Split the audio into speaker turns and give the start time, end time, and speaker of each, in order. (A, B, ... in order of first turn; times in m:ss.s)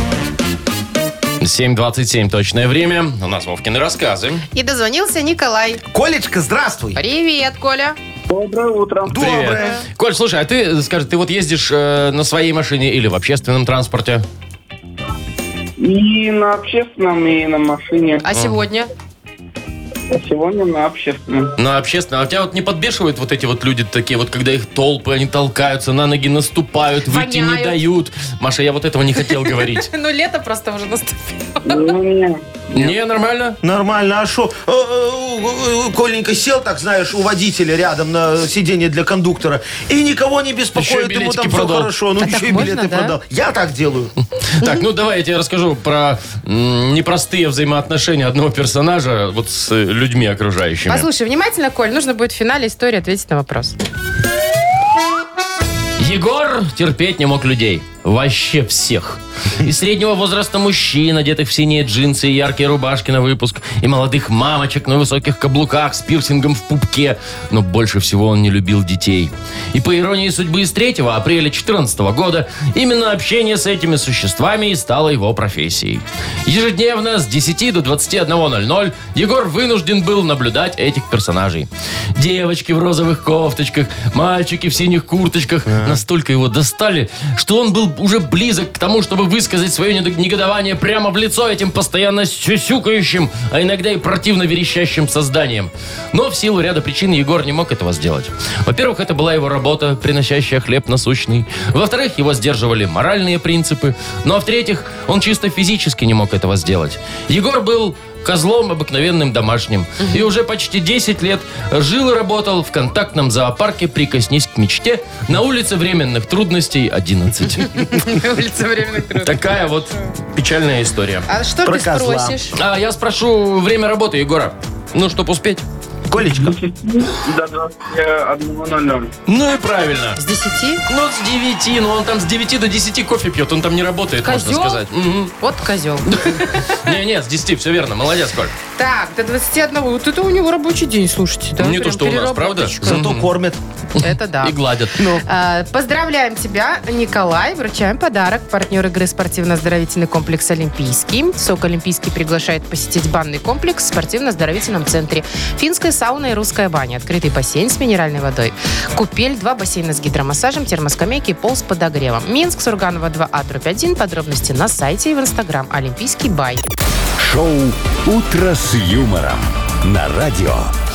0:01.4-0:04.4 A
0:04.5-0:05.8 B
0:05.9-0:07.0 C
0:07.0-0:08.0 B
0:08.3-0:09.4 D
0:09.0-0:09.8 C
0:09.2-0:14.2 A
0:15.8-0:18.2 D
0:18.2-0:18.9 B
0:20.1-0:21.5 D
0:21.6-0:29.9 A
0:27.0-0:27.8 B
0:29.2-0:31.9 B
0:31.6-0:32.9 D
0:32.7-0:33.6 A
0:33.6-0:44.1 C
0:40.7-0:41.9 A
0:42.2-0:43.2 B
0:44.6-0:51.1 A
0:50.9-0:53.8 B
0:56.0-1:57.9 A
1:25.7-1:26.0 C
1:57.6-1:59.4 B
1:59.2-2:01.3 A
2:01.3-2:02.5 B
2:01.6-2:02.4 C
2:02.5-2:05.6 A
2:06.1-2:06.5 C
2:06.3-2:09.1 D
2:09.3-2:10.2 A
2:10.2-2:10.8 B
2:10.9-2:15.4 A
2:14.2-2:14.8 B
2:15.4-2:16.9 B
2:16.0-2:18.5 A
2:18.8-2:23.0 B
2:21.6-2:23.3 A
2:22.8-2:23.6 C
2:24.0-2:25.0 A
2:24.0-2:24.5 B
2:25.0-2:25.2 C
2:25.2-2:46.6 B
2:47.2-2:50.7 E